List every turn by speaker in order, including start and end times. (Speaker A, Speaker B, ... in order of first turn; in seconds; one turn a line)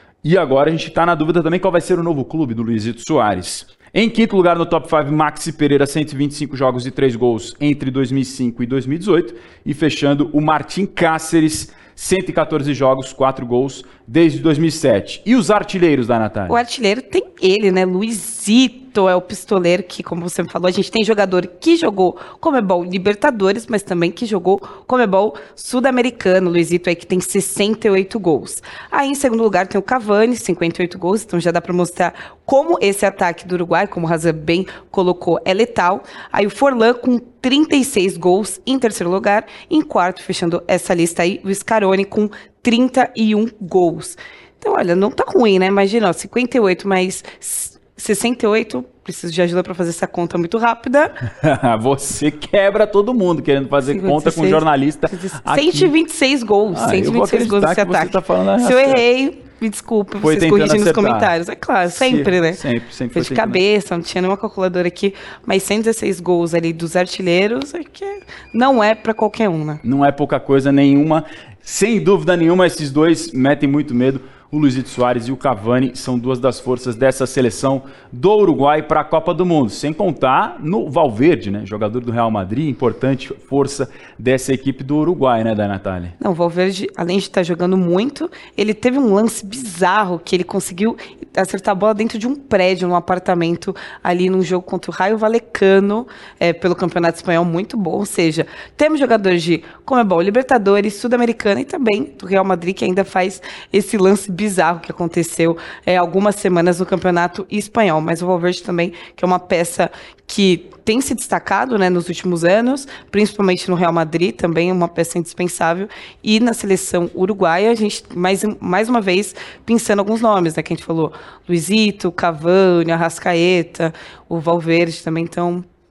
Speaker A: 0.2-16.6
Speaker B: 16.5-51.2
Speaker A: 51.4-55.9
Speaker B: 53.9-62.6
Speaker A: 56.7-59.0
Speaker A: 60.2-63.6
Speaker B: 63.1-69.8
Speaker A: 69.8-86.2
Speaker B: 86.2-125.7